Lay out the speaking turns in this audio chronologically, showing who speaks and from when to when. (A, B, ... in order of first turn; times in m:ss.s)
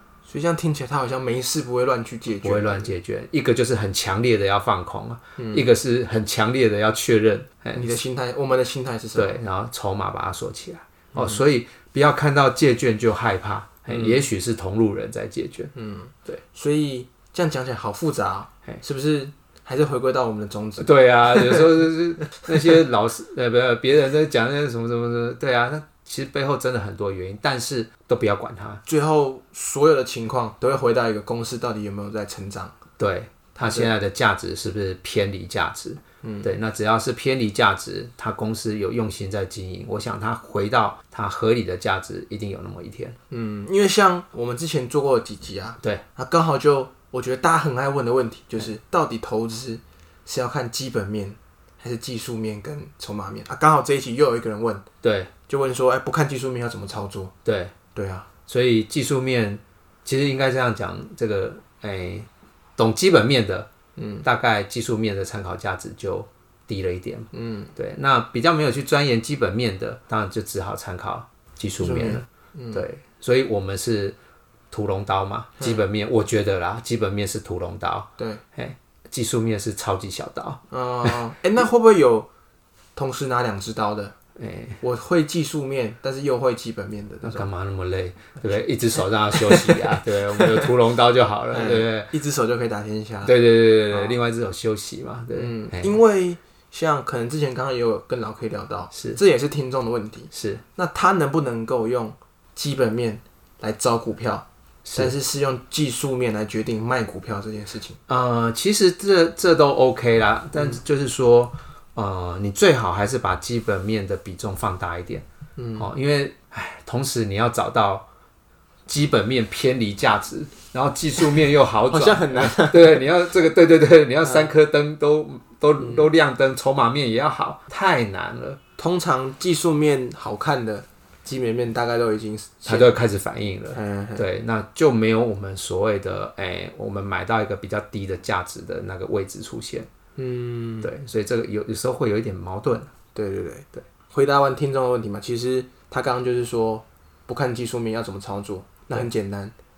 0:00.3-0:02.9 A
0:02.4-0:07.9 B
0:05.4-0:05.7 A
0:07.7-0:09.4 A
0:09.1-0:15.7 B
0:11.1-0:11.4 A
0:13.9-0:14.2 A
0:15.7-0:21.7 A
0:20.8-0:28.8 B
0:22.4-0:22.6 A
0:28.8-0:32.7 A
0:33.0-0:43.2 B
0:33.5-0:33.9 A
0:36.2-0:36.5 A
0:43.3-0:54.8 A
0:55.0-0:55.3 B
0:55.5-0:57.3 A
0:57.4-0:57.7 B
0:57.9-0:58.3 A
0:58.5-1:03.7 B
1:04.0-1:04.2 A
1:04.2-1:14.2 B
1:07.3-1:07.7 A
1:11.8-1:12.8 A
1:14.7-1:21.1 B
1:20.7-1:22.3 A
1:23.0-1:24.1 A
1:24.4-1:24.8 B
1:24.8-1:27.4 A
1:27.2-1:32.1 B
1:29.3-1:30.7 A
1:31.5-1:33.3 A
1:33.2-1:36.0 B
1:33.9-1:34.2 A
1:35.3-1:48.0 A
1:38.9-1:39.2 B
1:40.3-1:40.6 B
1:44.8-1:45.1 B
1:48.1-1:55.2 B
1:55.6-1:55.9 A
1:55.8-1:58.1 B
1:58.8-2:08.6 B
2:01.9-2:03.0 A
2:04.2-2:04.5 A
2:08.8-2:13.0 A
2:12.6-2:19.9 B
2:13.7-2:14.2 A
2:20.2-2:20.9 A
2:20.8-2:22.9 B
2:23.1-2:29.5 A